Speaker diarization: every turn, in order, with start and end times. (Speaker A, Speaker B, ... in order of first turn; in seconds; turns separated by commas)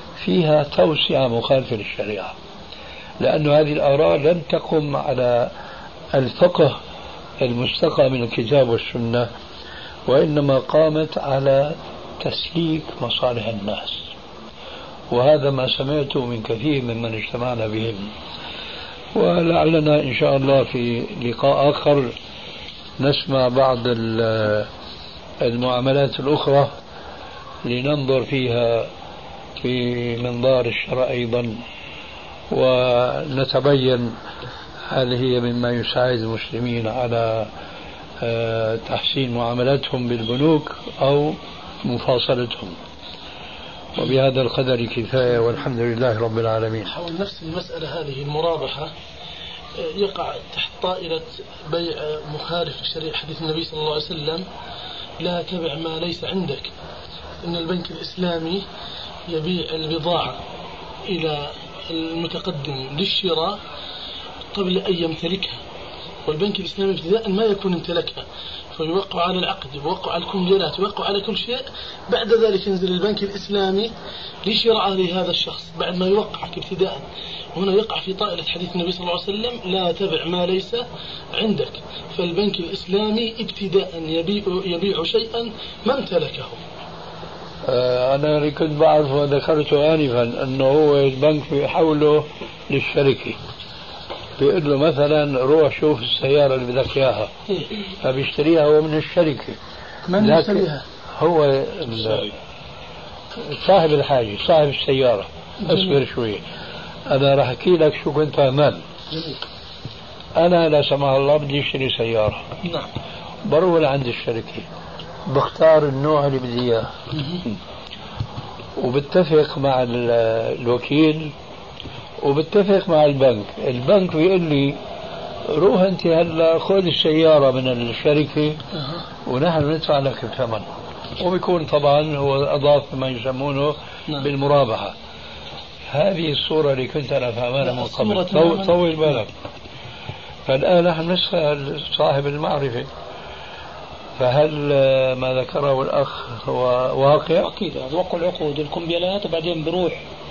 Speaker A: 0.2-2.4, Speaker A: 3.2-5.5, Speaker A: 6.1-6.8, Speaker A: 7.4-9.3, Speaker A: 10.1-14.1, Speaker A: 15.1-18.1, Speaker A: 19.1-22.1, Speaker A: 23.0-24.7, Speaker A: 25.4-26.8, Speaker A: 27.6-28.9, Speaker A: 29.6-31.6, Speaker A: 32.5-34.2, Speaker A: 34.9-37.5, Speaker A: 38.2-42.8, Speaker A: 43.9-46.9, Speaker B: 46.9-48.9, Speaker B: 49.8-54.5, Speaker B: 55.2-56.7, Speaker B: 57.4-58.6, Speaker B: 59.3-60.4, Speaker B: 61.1-63.6, Speaker B: 64.5-65.6, Speaker B: 66.3-73.9, Speaker B: 74.5-86.6, Speaker A: 87.7-93.4, Speaker A: 94.4-97.3, Speaker A: 98.0-99.6, Speaker B: 100.1-100.8, Speaker A: 100.2-102.4, Speaker A: 103.4-106.4, Speaker B: 105.6-106.0, Speaker A: 107.1-108.8, Speaker B: 109.1-109.4, Speaker A: 110.4-112.5, Speaker B: 112.6-112.9, Speaker A: 113.4-114.7, Speaker A: 115.3-116.9, Speaker B: 117.1-117.4, Speaker A: 118.8-121.3, Speaker A: 122.2-124.8, Speaker A: 125.5-128.6, Speaker B: 128.7-129.0, Speaker A: 129.2-134.9, Speaker A: 135.9-139.3, Speaker B: 137.6-139.2, Speaker A: 140.5-142.9, Speaker A: 144.2-147.5, Speaker C: 147.4-150.1